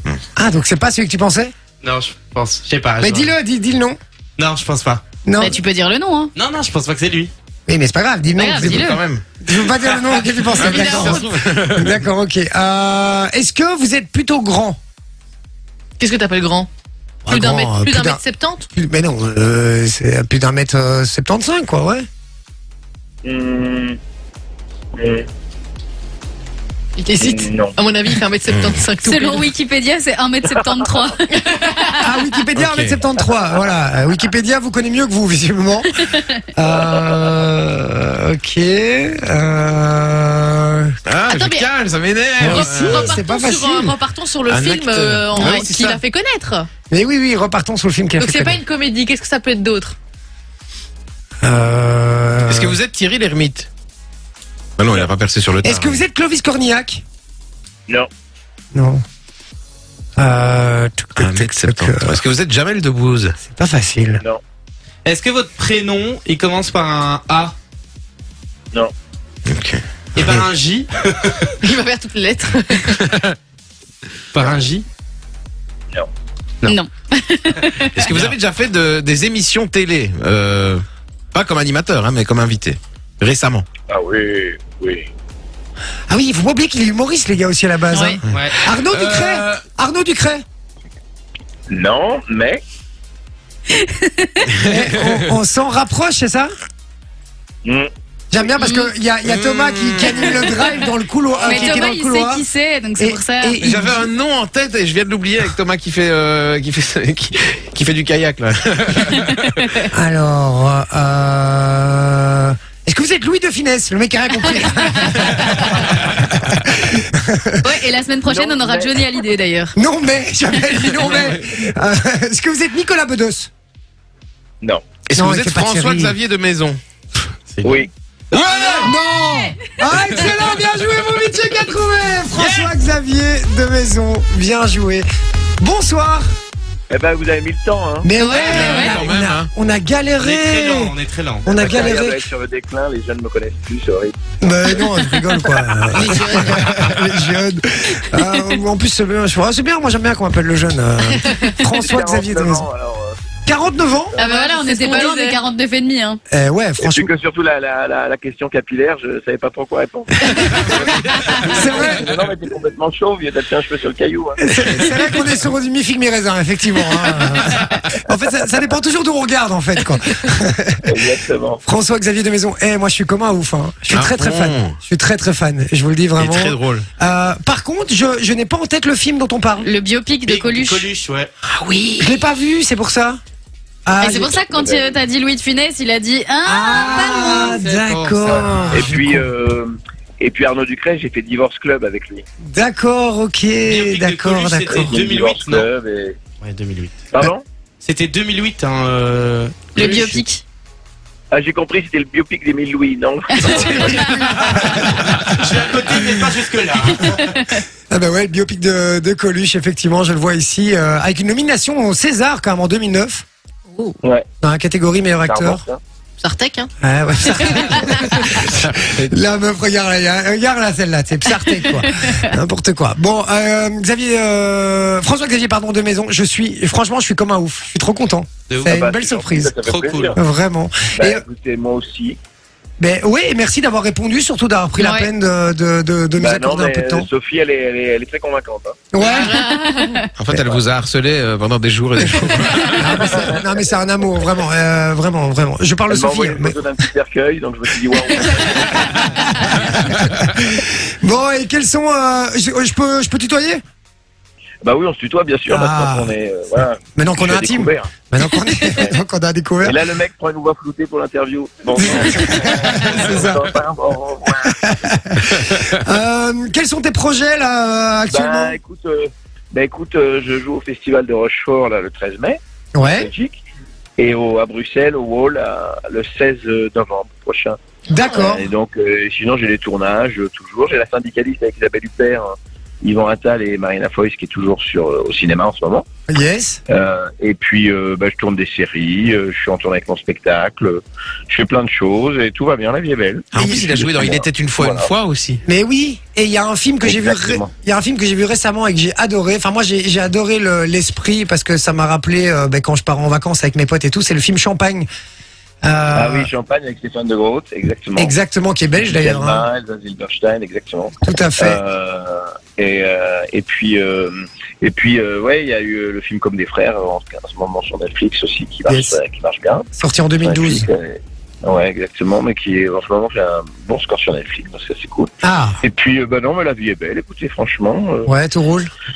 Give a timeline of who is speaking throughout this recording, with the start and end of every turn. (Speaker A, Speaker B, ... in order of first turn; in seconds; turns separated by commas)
Speaker A: 0.4-1.5, Speaker B: 1.8-3.3, Speaker A: 3.0-4.0, Speaker B: 4.4-5.0, Speaker A: 5.2-5.6, Speaker C: 5.4-6.3, Speaker B: 6.3-7.3, Speaker A: 7.7-14.8, Speaker C: 8.3-9.0, Speaker D: 8.6-9.2, Speaker B: 9.7-10.3, Speaker D: 10.5-12.0, Speaker E: 10.6-11.3, Speaker E: 16.0-16.7, Speaker A: 17.2-18.2, Speaker E: 17.3-18.7, Speaker A: 18.7-22.1, Speaker F: 23.2-24.0, Speaker F: 25.0-25.3, Speaker E: 27.0-29.5, Speaker F: 27.2-27.8, Speaker C: 29.0-32.2, Speaker E: 31.3-31.9, Speaker A: 32.0-41.0, Speaker D: 32.5-33.0, Speaker C: 36.0-36.5, Speaker D: 41.0-43.2, Speaker E: 41.2-41.7, Speaker A: 42.4-44.0, Speaker E: 42.4-46.7, Speaker D: 44.5-45.9, Speaker A: 45.4-45.8, Speaker A: 46.9-48.6, Speaker E: 48.2-49.9, Speaker A: 51.4-52.8, Speaker D: 52.5-53.7, Speaker D: 54.8-56.0, Speaker A: 55.6-57.0, Speaker A: 58.7-59.0, Speaker A: 60.2-62.1, Speaker D: 61.2-63.4, Speaker A: 63.4-64.2, Speaker B: 65.0-67.5, Speaker D: 69.5-69.8, Speaker B: 70.1-71.5, Speaker E: 71.6-73.0, Speaker D: 72.9-73.3, Speaker B: 74.3-74.8, Speaker C: 76.6-78.0, Speaker D: 77.9-83.7, Speaker B: 78.0-78.3, Speaker F: 83.9-85.1, Speaker A: 86.1-90.4, Speaker C: 87.9-88.2, Speaker B: 88.3-88.6, Speaker D: 88.7-89.6, Speaker F: 91.7-92.6, Speaker C: 93.7-94.5, Speaker D: 94.6-95.3, Speaker A: 94.6-96.5, Speaker A: 98.3-102.5, Speaker C: 98.6-98.9, Speaker D: 99.2-100.3, Speaker C: 100.2-100.5, Speaker C: 101.4-103.6, Speaker A: 103.0-104.0, Speaker D: 103.6-109.7, Speaker A: 109.9-117.7, Speaker C: 114.8-115.7, Speaker C: 117.6-119.8, Speaker F: 118.2-119.1, Speaker A: 119.8-123.5, Speaker C: 120.5-121.1, Speaker D: 125.1-126.8, Speaker A: 125.1-126.2, Speaker B: 127.5-127.8, Speaker F: 127.6-127.9, Speaker A: 128.3-135.1, Speaker C: 128.4-129.8, Speaker B: 132.4-132.7, Speaker A: 135.6-136.3, Speaker F: 136.9-138.1, Speaker A: 138.0-140.9, Speaker C: 138.2-139.1, Speaker D: 138.4-139.5, Speaker B: 140.2-141.5, Speaker A: 141.4-142.2, Speaker F: 141.5-144.9, Speaker A: 144.4-152.6, Speaker E: 145.9-146.8, Speaker F: 145.9-146.2, Speaker C: 148.2-148.6, Speaker E: 151.1-151.6, Speaker F: 151.7-153.2, Speaker A: 153.4-154.2, Speaker F: 154.1-154.4, Speaker C: 154.2-156.2, Speaker E: 154.2-155.4, Speaker A: 156.3-157.1, Speaker F: 156.8-165.0, Speaker C: 160.9-161.5, Speaker A: 161.4-162.0, Speaker A: 164.4-170.8, Speaker F: 170.8-171.6, Speaker A: 171.6-179.7, Speaker D: 173.9-174.8, Speaker D: 176.2-176.8, Speaker C: 179.6-180.9, Speaker B: 180.2-181.3, Speaker A: 182.0-183.2, Speaker A: 183.8-184.4, Speaker C: 184.0-187.6, Speaker F: 184.5-185.0, Speaker A: 186.4-189.2, Speaker B: 186.7-189.0, Speaker F: 188.7-192.2, Speaker A: 192.4-194.9, Speaker B: 193.6-195.7, Speaker F: 194.7-196.2, Speaker B: 196.4-197.0, Speaker F: 197.1-197.4, Speaker B: 197.8-200.2, Speaker C: 199.7-200.4, Speaker F: 201.3-204.1, Speaker C: 203.3-204.7, Speaker A: 203.5-205.4, Speaker B: 204.3-207.2, Speaker C: 207.0-207.6, Speaker A: 207.9-213.2, Speaker A: 214.4-215.6, Speaker F: 215.2-215.8, Speaker E: 216.2-216.7, Speaker A: 216.8-229.6, Speaker D: 218.4-219.1, Speaker C: 221.8-222.3, Speaker B: 228.5-228.8, Speaker F: 228.6-230.2, Speaker B: 229.6-230.2, Speaker A: 230.1-231.2, Speaker F: 230.9-232.2, Speaker A: 232.8-237.1, Speaker C: 234.8-235.1, Speaker F: 236.2-238.8, Speaker A: 238.9-239.4, Speaker E: 239.0-240.0, Speaker C: 239.3-240.1, Speaker D: 240.2-243.0, Speaker C: 242.5-242.8, Speaker A: 242.7-246.6, Speaker F: 243.1-243.5, Speaker F: 245.9-249.1, Speaker A: 248.2-253.6, Speaker F: 254.6-257.9, Speaker A: 255.5-256.1, Speaker A: 256.9-259.7, Speaker F: 258.7-259.0, Speaker F: 259.6-264.6, Speaker A: 261.7-263.4, Speaker C: 262.2-262.5, Speaker A: 264.4-268.6, Speaker F: 268.1-273.4, Speaker A: 272.7-273.1, Speaker F: 274.0-277.6, Speaker A: 277.9-278.4, Speaker F: 278.2-285.9, Speaker A: 286.1-286.6, Speaker F: 286.7-294.9, Speaker D: 293.3-295.4, Speaker A: 293.3-293.9, Speaker A: 295.4-304.9, Speaker F: 296.8-297.5, Speaker A: 305.6-306.3, Speaker F: 305.9-308.1, Speaker A: 307.9-309.5, Speaker F: 308.8-319.7, Speaker A: 311.0-311.6, Speaker A: 318.7-319.0, Speaker A: 319.7-320.7, Speaker F: 320.2-328.1, Speaker A: 325.2-325.6, Speaker A: 328.1-328.7